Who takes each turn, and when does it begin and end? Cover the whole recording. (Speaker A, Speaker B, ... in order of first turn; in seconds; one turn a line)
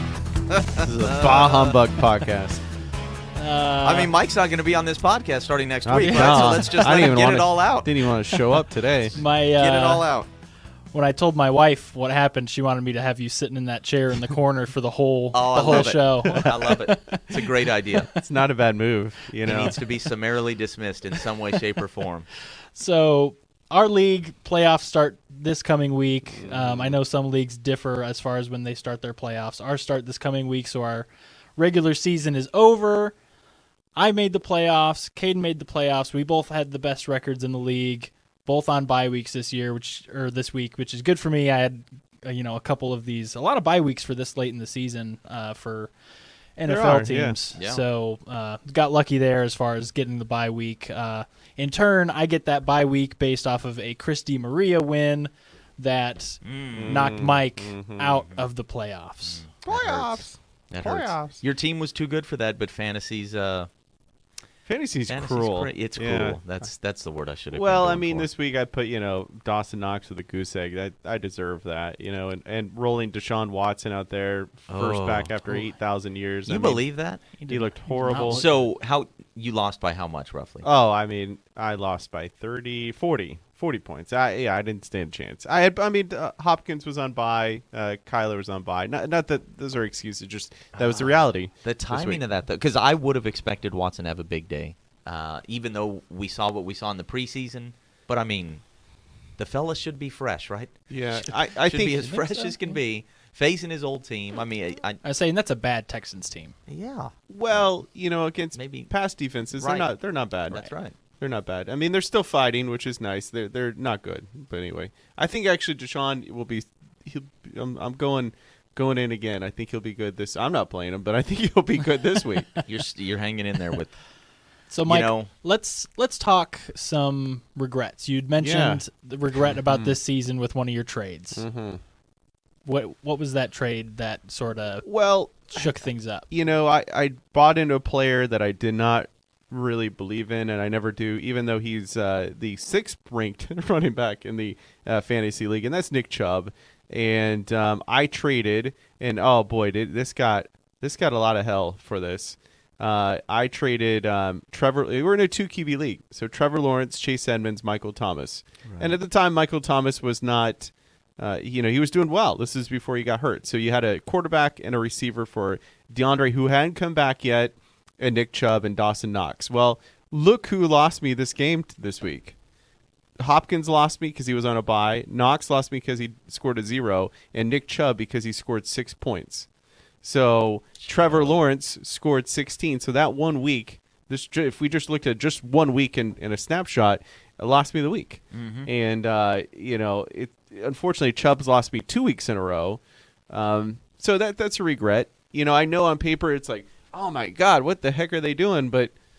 Speaker A: 0.6-1.8
Speaker B: 0.8-2.6
Speaker C: 3.4-4.1
Speaker A: 3.8-8.1
Speaker B: 5.8-9.2
Speaker C: 6.0-7.0
Speaker C: 9.1-10.1
Speaker A: 9.6-10.3
Speaker C: 10.9-18.2
Speaker A: 15.3-18.1
Speaker B: 15.7-16.5
Speaker B: 18.2-19.8
Speaker A: 19.4-22.3
Speaker C: 22.8-33.1
Speaker B: 26.4-27.0
Speaker C: 34.0-45.9
Speaker C: 46.6-59.4
Speaker B: 46.7-47.4
Speaker A: 47.5-47.8
Speaker A: 56.4-57.1
Speaker B: 56.7-58.2
Speaker A: 59.4-63.7
Speaker B: 59.6-61.4
Speaker B: 64.7-66.4
Speaker A: 65.1-68.3
Speaker B: 67.5-76.8
Speaker A: 74.7-75.4
Speaker A: 76.5-77.3
Speaker C: 77.4-78.6
Speaker B: 77.5-78.5
Speaker A: 78.1-80.7
Speaker B: 80.6-92.2
Speaker A: 90.8-98.6
Speaker A: 99.4-105.0
Speaker B: 100.9-102.1
Speaker C: 102.0-102.8
Speaker C: 105.0-106.5
Speaker A: 106.7-107.7
Speaker B: 107.3-122.5
Speaker A: 108.5-108.9
Speaker A: 109.6-109.9
Speaker A: 110.5-110.9
Speaker A: 122.7-124.0
Speaker C: 124.7-131.4
Speaker A: 124.9-125.3
Speaker B: 128.4-128.8
Speaker B: 129.7-130.0
Speaker B: 131.4-131.8
Speaker C: 132.7-134.9
Speaker B: 134.8-135.6
Speaker C: 135.5-136.3
Speaker B: 136.3-172.3
Speaker A: 158.7-158.9
Speaker B: 173.2-179.5
Speaker B: 180.0-198.9
Speaker A: 180.8-181.3
Speaker A: 188.3-188.7